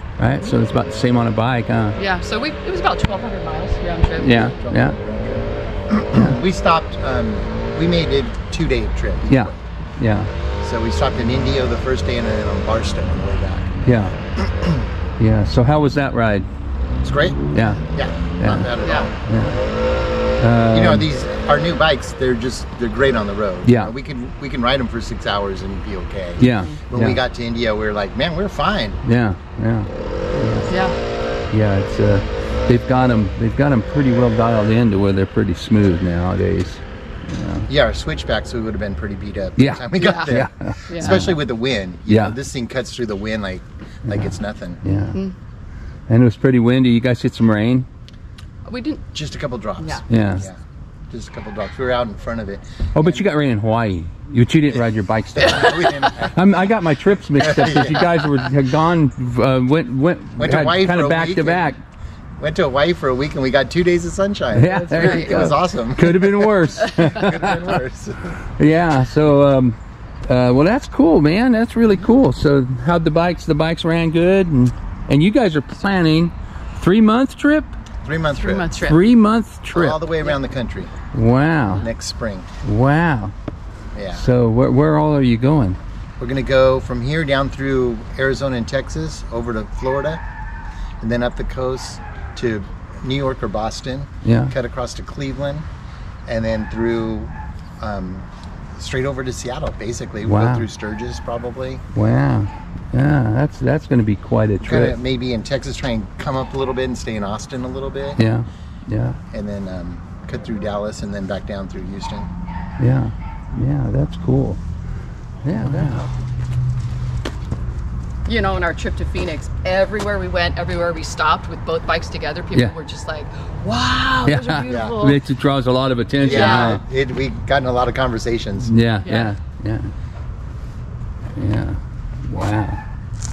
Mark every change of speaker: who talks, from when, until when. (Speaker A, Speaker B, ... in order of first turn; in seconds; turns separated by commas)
Speaker A: 0.2-2.0, Speaker B: 2.0-4.5, Speaker A: 4.2-5.0, Speaker C: 4.3-9.6, Speaker A: 9.3-10.3, Speaker C: 10.6-13.7, Speaker A: 13.8-14.2, Speaker C: 14.5-14.8, Speaker A: 15.2-16.5, Speaker C: 17.0-17.4, Speaker A: 17.5-17.8, Speaker C: 17.9-19.2, Speaker A: 18.4-19.6, Speaker B: 18.8-19.1, Speaker A: 20.4-21.1, Speaker C: 20.7-29.0, Speaker A: 23.6-23.9, Speaker A: 26.4-27.2, Speaker A: 29.0-30.7, Speaker B: 30.7-31.0, Speaker A: 31.5-37.7, Speaker C: 37.7-44.8, Speaker A: 39.6-41.4, Speaker B: 40.0-40.3, Speaker B: 40.9-41.2, Speaker A: 42.1-42.4, Speaker A: 44.8-45.2, Speaker A: 46.1-47.9, Speaker B: 48.7-49.0, Speaker C: 49.1-50.6, Speaker A: 50.1-50.5, Speaker C: 51.1-53.3, Speaker A: 53.0-61.8, Speaker C: 55.4-56.4, Speaker C: 57.4-58.2, Speaker C: 60.4-61.7, Speaker C: 62.4-68.4, Speaker A: 64.5-67.8, Speaker B: 65.0-65.5, Speaker A: 68.6-69.8, Speaker A: 70.3-77.7, Speaker C: 78.0-78.7, Speaker B: 78.3-79.0, Speaker A: 78.8-80.0, Speaker C: 79.7-80.9, Speaker A: 81.1-81.9, Speaker C: 81.7-82.5, Speaker A: 82.6-83.3, Speaker C: 84.0-84.3, Speaker A: 84.1-85.8, Speaker C: 86.2-90.2, Speaker C: 91.0-95.7, Speaker A: 94.2-94.5, Speaker C: 96.3-101.8, Speaker A: 100.2-100.7, Speaker A: 101.9-105.0, Speaker C: 104.6-108.2, Speaker A: 108.2-109.2, Speaker C: 109.3-112.3, Speaker A: 112.8-114.6, Speaker A: 115.5-116.1, Speaker B: 118.3-125.2, Speaker A: 124.2-126.8, Speaker C: 124.7-125.1, Speaker C: 126.2-128.7, Speaker B: 126.2-126.8, Speaker A: 128.6-129.9, Speaker B: 129.1-129.3, Speaker A: 131.4-132.8